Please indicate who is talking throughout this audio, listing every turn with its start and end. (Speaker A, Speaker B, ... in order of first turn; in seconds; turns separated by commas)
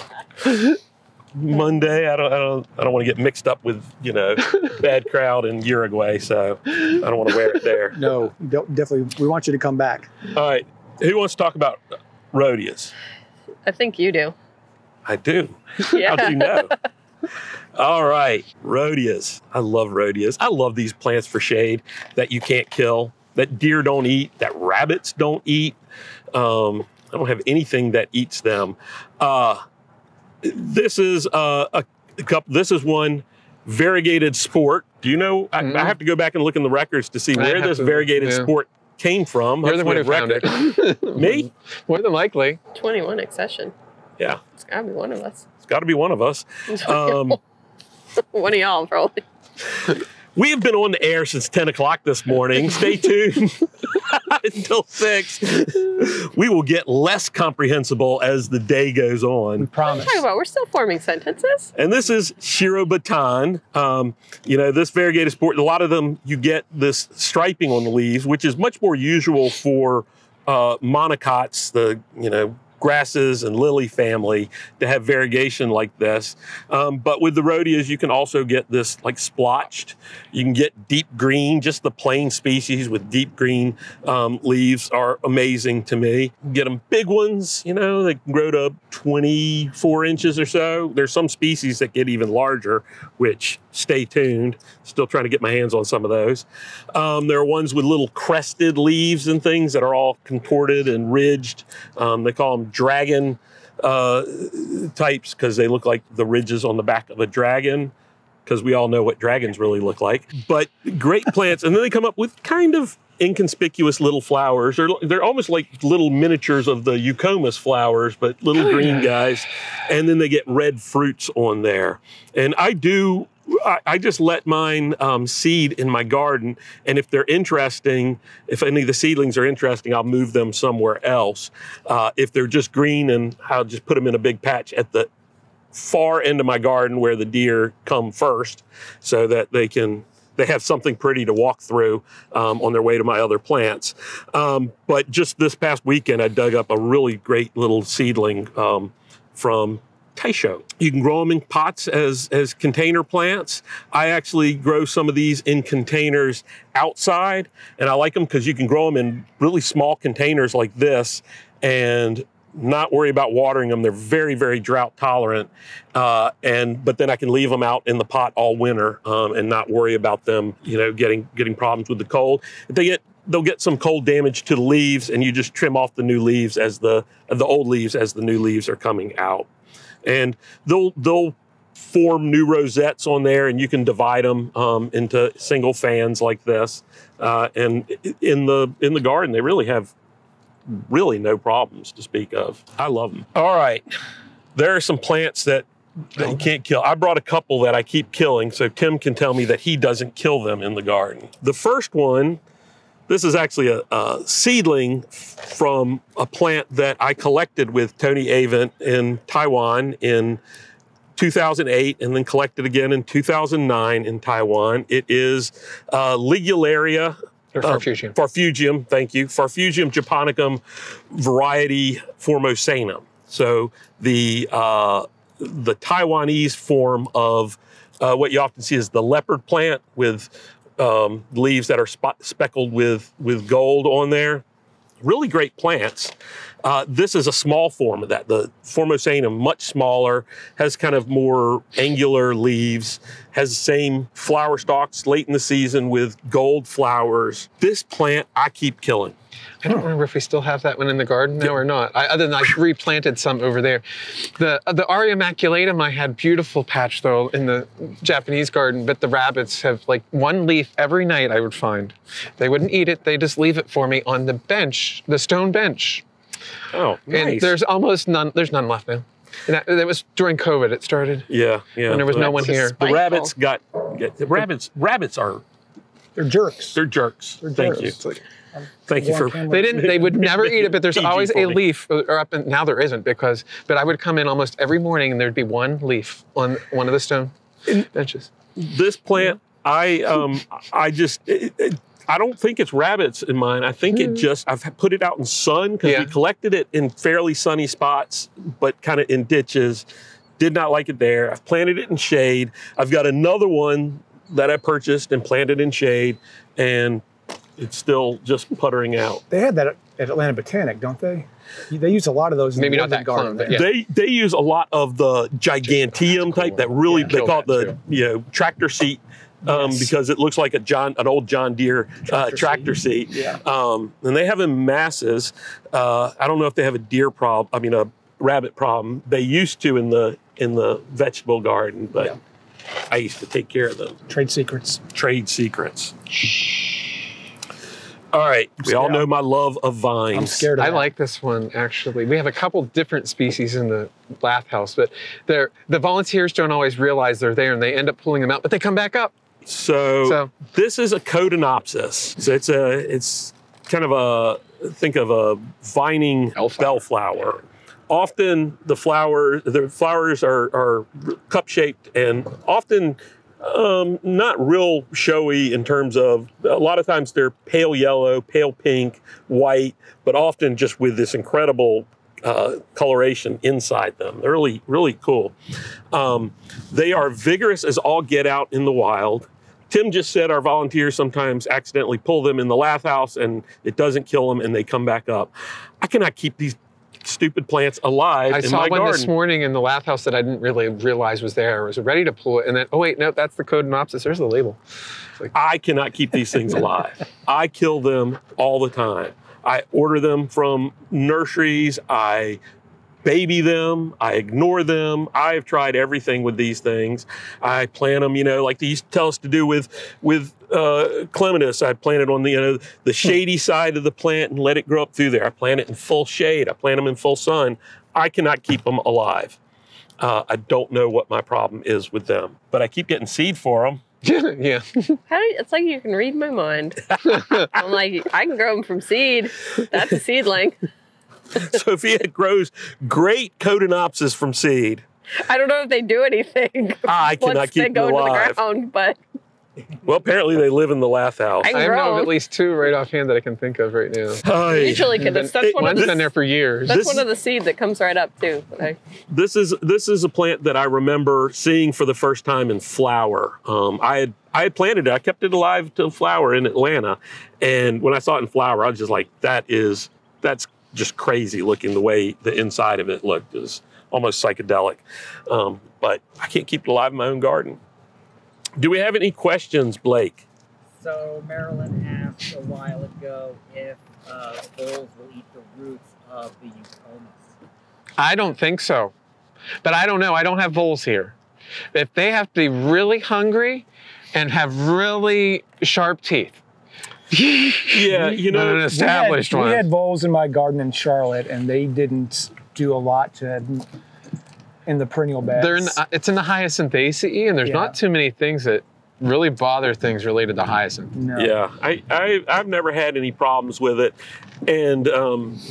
Speaker A: 1.3-8.0, Speaker B: 7.9-10.1, Speaker A: 10.3-12.9, Speaker C: 13.7-14.3, Speaker A: 15.1-16.7, Speaker C: 15.9-16.7, Speaker A: 17.7-25.8, Speaker A: 26.3-29.6, Speaker A: 30.4-41.5, Speaker D: 35.6-35.9, Speaker D: 37.3-38.5, Speaker D: 39.6-42.6, Speaker C: 42.7-43.7, Speaker C: 44.6-45.4, Speaker A: 45.6-47.4, Speaker C: 46.7-47.3, Speaker C: 48.3-49.2, Speaker A: 50.3-59.7, Speaker B: 59.6-60.2, Speaker C: 59.9-61.7, Speaker A: 61.8-107.9, Speaker A: 108.5-135.1, Speaker A: 135.7-179.5, Speaker A: 180.0-189.9, Speaker A: 190.7-193.8, Speaker A: 194.5-202.4, Speaker A: 203.1-210.4, Speaker A: 211.2-234.4, Speaker D: 217.5-218.1, Speaker A: 235.0-249.1, Speaker D: 249.6-266.0, Speaker A: 266.7-267.5, Speaker D: 267.1-271.3, Speaker A: 271.3-275.4, Speaker D: 271.9-272.8, Speaker C: 272.8-273.3, Speaker B: 276.1-276.8, Speaker A: 276.7-278.0, Speaker B: 277.4-279.9, Speaker D: 277.6-278.2, Speaker A: 278.9-281.6, Speaker D: 279.5-288.3, Speaker A: 288.6-299.8, Speaker D: 295.8-296.1, Speaker A: 300.4-307.0, Speaker A: 307.6-309.2, Speaker B: 309.3-313.6, Speaker D: 312.6-313.7, Speaker A: 313.5-332.2, Speaker D: 316.4-317.8, Speaker B: 316.9-317.2, Speaker B: 319.5-319.8, Speaker B: 322.1-323.4, Speaker A: 332.9-334.0, Speaker B: 334.1-334.8, Speaker A: 334.9-336.8, Speaker A: 338.1-340.5, Speaker B: 338.6-339.1, Speaker B: 340.1-340.9, Speaker D: 340.6-349.1, Speaker A: 349.4-375.3, Speaker D: 350.0-350.3, Speaker D: 356.4-356.8, Speaker A: 375.9-389.1, Speaker D: 388.3-394.6, Speaker A: 395.3-402.4, Speaker A: 403.0-419.4, Speaker A: 420.0-423.8, Speaker D: 424.0-425.0, Speaker C: 425.1-430.6, Speaker A: 431.3-434.8, Speaker C: 435.2-439.0, Speaker A: 436.8-438.4, Speaker A: 439.8-441.5, Speaker C: 441.4-442.1, Speaker D: 441.5-444.2, Speaker A: 444.2-446.1, Speaker C: 444.5-446.0, Speaker D: 444.9-446.9, Speaker A: 446.7-447.0, Speaker C: 446.7-448.8, Speaker A: 449.1-467.6, Speaker A: 468.6-470.2, Speaker E: 470.8-477.3, Speaker D: 478.0-478.9, Speaker D: 479.6-481.1, Speaker D: 481.7-486.4, Speaker D: 487.1-489.6, Speaker A: 487.7-488.7, Speaker B: 488.6-493.6, Speaker B: 494.6-495.8, Speaker D: 495.4-500.9, Speaker B: 497.4-497.8, Speaker B: 500.9-501.3, Speaker A: 501.1-503.9, Speaker A: 504.5-505.4